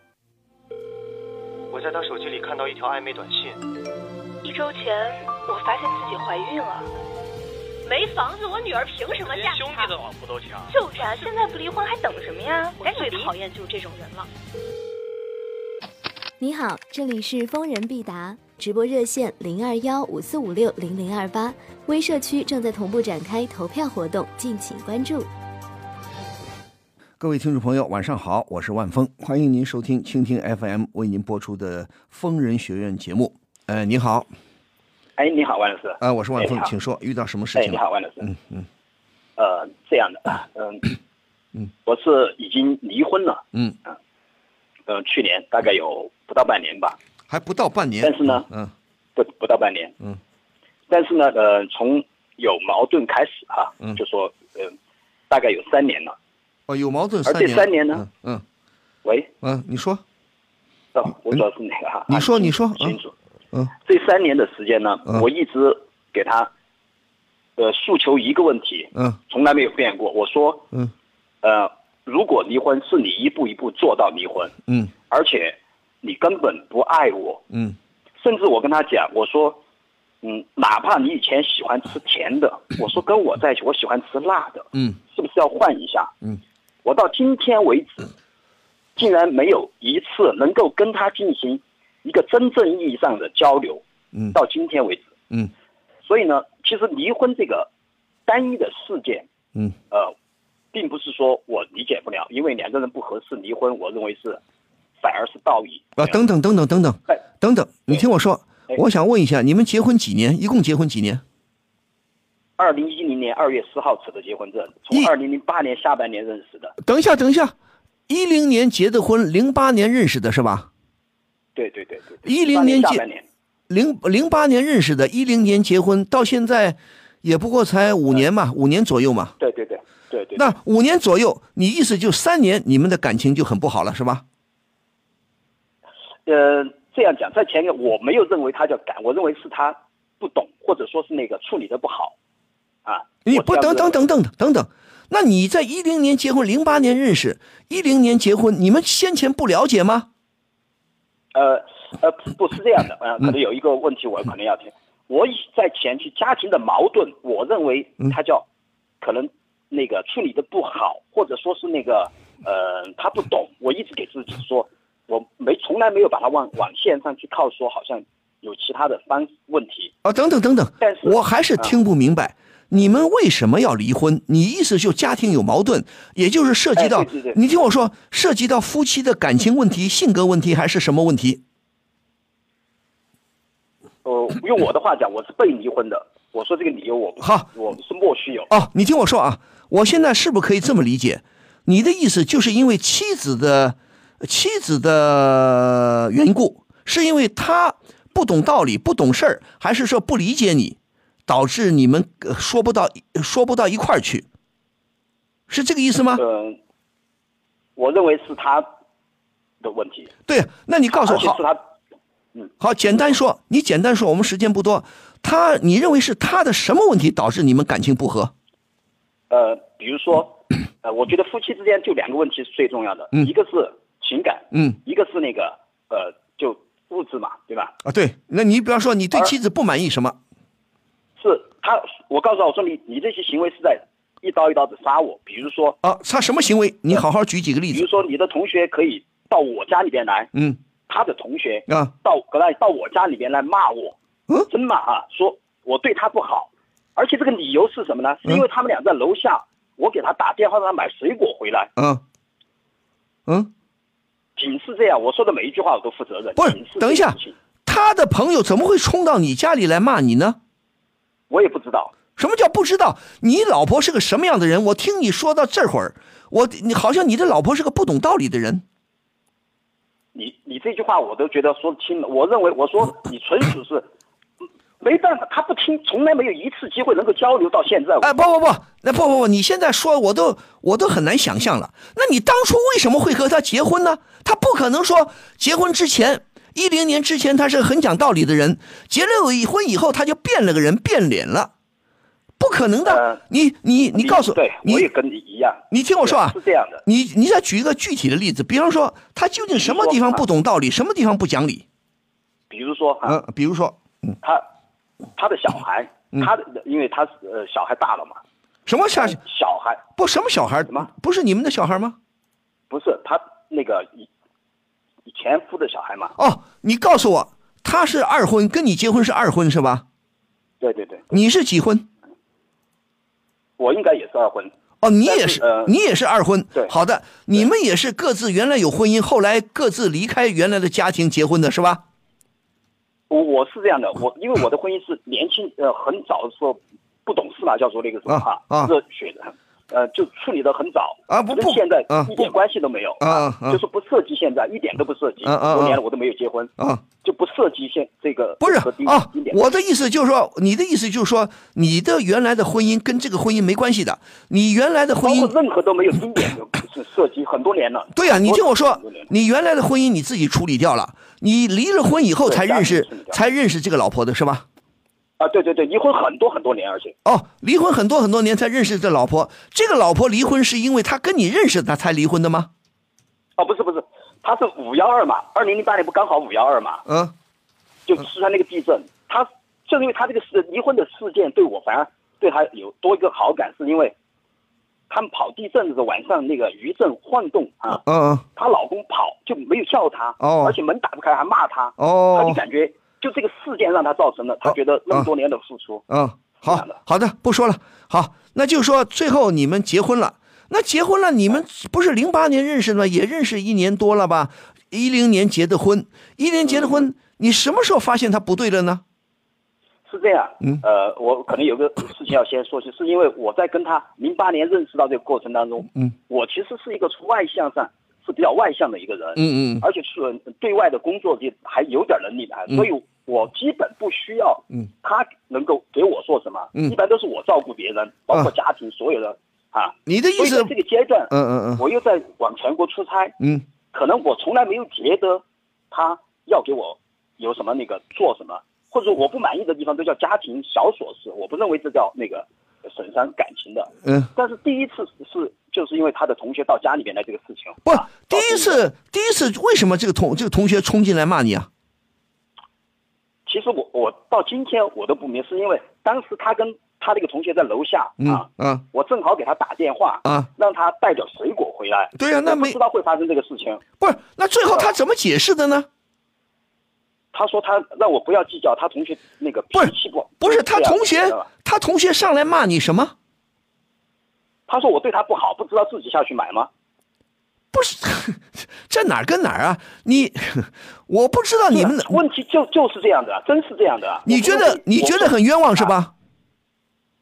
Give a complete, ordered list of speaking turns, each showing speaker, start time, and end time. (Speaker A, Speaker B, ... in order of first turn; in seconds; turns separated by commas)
Speaker A: 1.7-3.6, Speaker B: 4.4-6.9, Speaker B: 7.8-9.9, Speaker A: 9.2-10.8, Speaker B: 10.7-14.3, Speaker A: 12.8-13.3, Speaker C: 16.4-25.3, Speaker D: 27.2-34.3, Speaker E: 35.2-36.7, Speaker D: 36.0-38.6, Speaker E: 37.5-38.3, Speaker E: 39.4-40.9, Speaker E: 41.8-43.4, Speaker E: 44.9-47.0, Speaker D: 47.3-48.7, Speaker E: 48.0-48.5, Speaker E: 49.1-50.0, Speaker E: 50.9-54.7, Speaker E: 55.3-56.1, Speaker D: 56.7-58.4, Speaker E: 57.2-58.0, Speaker E: 59.0-59.3, Speaker D: 59.4-60.0, Speaker E: 60.9-63.1, Speaker D: 62.1-63.0, Speaker E: 63.8-66.5, Speaker E: 67.6-70.7, Speaker E: 71.4-74.5, Speaker E: 75.1-77.4, Speaker E: 78.2-79.6, Speaker E: 80.2-86.1, Speaker E: 86.8-88.1, Speaker E: 89.0-95.1, Speaker E: 96.0-97.7, Speaker E: 98.2-99.3, Speaker E: 100.7-104.4, Speaker E: 105.0-106.2, Speaker D: 106.0-111.2, Speaker E: 112.6-116.7, Speaker D: 116.8-117.5, Speaker D: 118.1-120.7, Speaker E: 121.5-123.2, Speaker D: 122.2-123.0, Speaker D: 123.7-129.3, Speaker E: 129.4-130.4, Speaker D: 130.3-134.2, Speaker E: 136.2-142.1, Speaker E: 142.8-144.1, Speaker D: 143.2-150.1, Speaker E: 151.3-158.4, Speaker E: 159.0-169.9, Speaker D: 170.0-181.4, Speaker E: 170.8-171.8, Speaker E: 176.8-177.4, Speaker E: 184.0-188.5, Speaker D: 187.2-187.5, Speaker D: 188.5-204.2, Speaker D: 205.5-206.2, Speaker E: 206.2-206.6, Speaker E: 207.8-208.7, Speaker E: 209.6-210.1, Speaker D: 210.3-211.4, Speaker E: 210.9-211.6, Speaker D: 212.6-218.3, Speaker E: 219.3-227.7, Speaker D: 227.8-230.2, Speaker E: 231.2-235.8, Speaker D: 235.8-237.9, Speaker E: 237.7-240.3, Speaker E: 240.9-243.9, Speaker E: 244.5-251.7, Speaker D: 251.8-252.0, Speaker E: 254.4-257.4, Speaker D: 256.4-260.4, Speaker E: 261.3-261.9, Speaker D: 262.2-268.6, Speaker E: 270.1-273.9, Speaker E: 274.8-278.2, Speaker D: 278.0-291.5, Speaker D: 292.4-294.9, Speaker E: 292.9-293.2, Speaker E: 293.8-296.8, Speaker D: 295.7-301.6, Speaker E: 299.5-300.2, Speaker E: 302.5-303.2, Speaker D: 303.1-304.1, Speaker E: 305.1-308.2, Speaker D: 308.6-309.2, Speaker E: 308.9-309.9, Speaker D: 310.0-312.0, Speaker E: 312.7-314.1, Speaker E: 315.1-316.1, Speaker D: 316.2-319.8, Speaker E: 320.6-321.1, Speaker D: 321.1-321.9, Speaker E: 323.6-324.5, Speaker D: 324.8-331.8, Speaker E: 325.0-325.7, Speaker E: 333.1-349.4, Speaker D: 338.1-338.7, Speaker D: 341.1-342.3, Speaker D: 343.0-343.6, Speaker D: 345.2-345.8, Speaker D: 348.4-355.3, Speaker E: 355.0-359.1, Speaker D: 357.9-364.4, Speaker E: 362.2-363.2, Speaker E: 365.2-366.9, Speaker D: 367.0-372.5, Speaker E: 373.4-376.9, Speaker D: 376.9-377.1, Speaker E: 377.9-383.9, Speaker E: 384.9-387.8, Speaker D: 387.8-388.2, Speaker E: 388.4-395.8, Speaker D: 390.2-390.6, Speaker D: 391.8-392.4, Speaker D: 394.4-395.1, Speaker D: 395.9-408.8, Speaker E: 396.4-396.8, Speaker E: 406.5-406.8, Speaker E: 409.9-433.2, Speaker D: 419.1-419.6, Speaker D: 429.9-430.5, Speaker D: 431.1-431.6, Speaker E: 433.7-448.7, Speaker D: 447.6-451.5, Speaker E: 453.2-463.6, Speaker D: 458.0-458.6, Speaker D: 462.0-462.6, Speaker D: 463.8-465.7, Speaker E: 467.1-471.3, Speaker D: 469.5-472.9, Speaker E: 474.5-476.5, Speaker D: 477.5-482.0, Speaker E: 481.5-485.7, Speaker D: 484.1-485.9